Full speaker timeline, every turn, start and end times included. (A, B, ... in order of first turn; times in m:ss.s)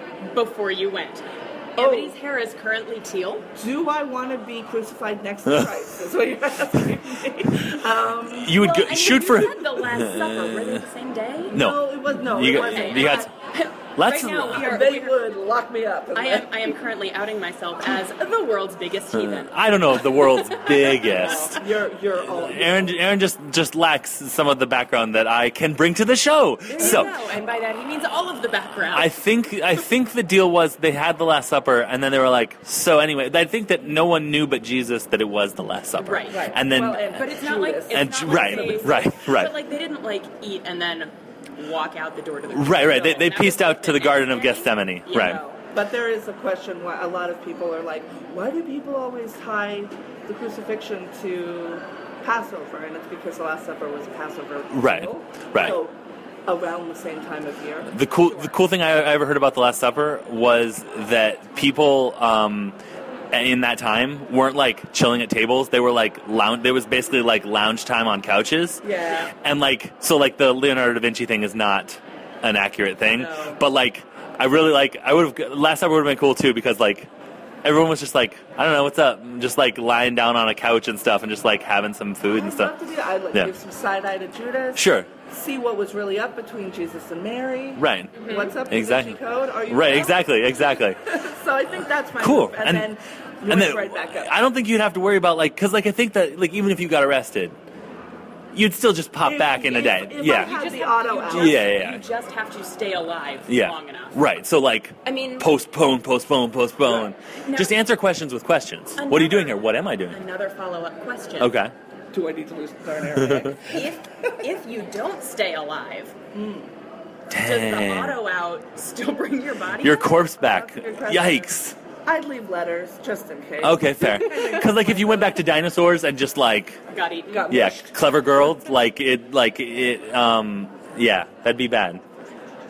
0:00.2-0:03.5 A
0:01.8-0:02.2 B
0:03.6-0:08.6 B
0:08.4-0:10.0 C
0:08.5-0:11.6 A
0:11.5-0:13.3 C
0:11.5-0:13.3 B
0:12.3-0:15.2 A
0:14.0-0:14.7 C
0:14.5-0:16.8 B
0:16.1-0:21.6 A
0:19.1-0:21.6 C
0:21.4-0:23.0 B
0:22.3-0:27.1 C
0:26.7-0:27.1 B
0:26.7-0:29.1 A
0:28.9-0:37.2 C
0:36.0-0:36.6 A
0:36.3-0:39.1 B
0:37.1-0:45.6 A
0:37.9-0:39.6 C
0:42.5-0:45.4 C
0:45.7-0:57.9 B
0:54.7-0:55.8 C
0:57.9-1:02.8 C
1:03.3-1:08.8 C
1:08.9-1:09.2 B
1:09.0-1:09.3 A
1:09.4-1:17.1 C
1:13.2-1:13.6 A
1:17.6-1:22.7 C
1:22.3-1:34.3 B
1:24.8-1:25.1 C
1:27.8-1:28.1 C
1:28.2-1:28.5 A
1:28.7-1:31.0 C
1:32.2-1:32.9 C
1:33.5-1:37.6 C
1:38.5-1:40.5 C
1:39.2-1:41.7 B
1:39.8-1:44.2 A
1:41.3-1:42.0 C
1:43.5-1:50.2 C
1:45.0-1:45.5 A
1:47.4-1:47.7 A
1:49.0-1:51.5 A
1:51.4-1:51.7 C
1:52.1-1:53.9 B
1:53.6-1:56.2 A
1:56.3-1:56.7 B
1:57.3-1:58.2 C
1:57.3-2:00.1 A
1:59.8-2:01.8 C
2:00.4-2:01.5 B
2:02.0-2:05.4 B
2:03.6-2:06.8 C
2:06.9-2:07.6 A
2:07.2-2:07.9 B
2:07.5-2:12.0 C